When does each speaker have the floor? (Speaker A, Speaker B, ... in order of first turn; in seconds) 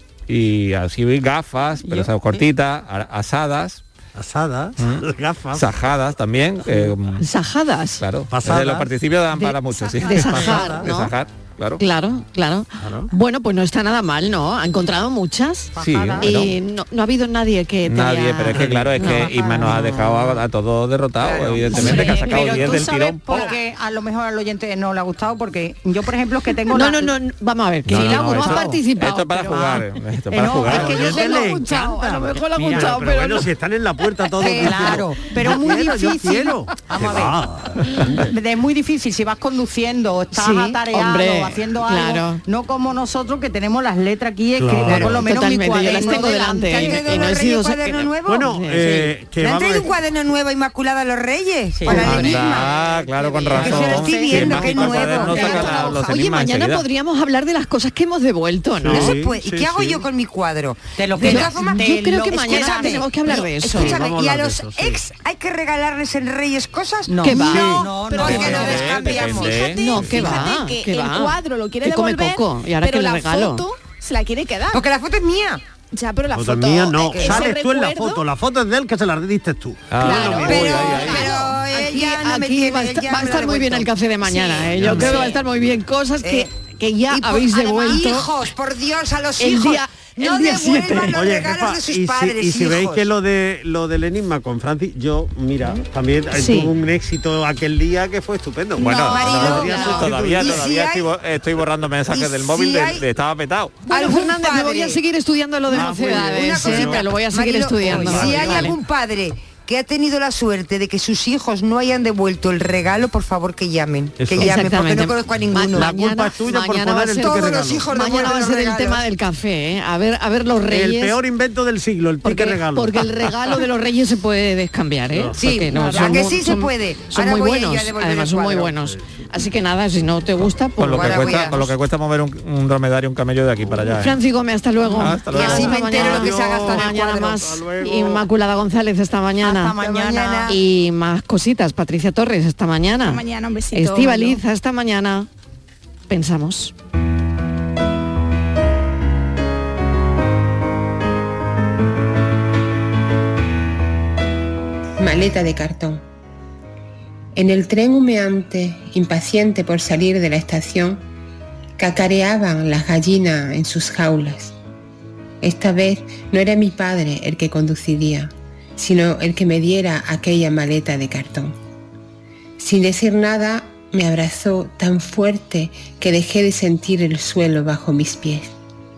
Speaker A: 0.3-3.8, 4.8-7.2, 8.0-11.8, 15.8-16.5, 17.8-23.5, 27.9-31.3, 51.9-56.8, 67.8-70.2, 79.9-81.3, 98.8-103.8, 130.8-134.2, 135.0-136.0
Speaker B: 1.8-2.4, 7.2-8.0, 9.3-11.1, 11.8-20.4, 21.8-22.4, 26.7-29.7, 30.8-33.4, 40.3-42.4, 45.2-48.8, 55.3-59.1, 61.2-64.0, 67.2-67.8, 69.8-73.6, 81.7-88.3, 89.4-91.2, 96.3-96.7, 98.8-100.1, 103.9-108.8, 114.4-121.2, 122.2-131.7, 133.8-139.8, 140.4-145.3, 146.1-146.7
Speaker C: 4.2-5.7, 8.3-8.9, 10.1-10.9, 12.8-13.1, 18.5-19.2, 30.6-38.2, 44.5-45.2, 48.3-49.9, 58.8-60.0, 63.6-65.0, 76.3-81.2, 84.7-85.2, 91.1-100.6, 105.7-107.1, 107.8-108.8, 114.2-114.5, 115.7-117.9, 120.7-123.3, 125.1-125.6, 128.8-129.2, 135.9-138.2
Speaker D: 15.7-16.4, 21.7-27.1, 27.9-33.1, 34.4-47.2, 48.8-49.1, 51.8-52.4, 53.4-55.5, 61.0-63.0, 67.1-68.8, 139.4-140.6
Speaker E: 21.2-22.9, 44.8-45.3, 45.8-48.5, 49.4-52.9, 53.5-56.0, 58.8-70.3, 74.7-75.6, 77.0-77.5, 80.1-85.3, 86.2-86.5, 87.1-93.1, 99.0-101.1, 102.1-103.0, 103.9-105.0, 105.7-115.9, 117.2-119.0, 125.3-128.7, 130.9-131.7, 135.3-137.5, 139.5-140.6
Speaker F: 55.6-56.1, 67.6-74.8, 75.9-78.2, 80.0-81.6, 84.5-85.4, 125.8-126.2, 143.0-144.4
Speaker G: 155.0-156.0, 157.3-161.0, 161.8-164.5, 165.4-171.5, 172.6-178.5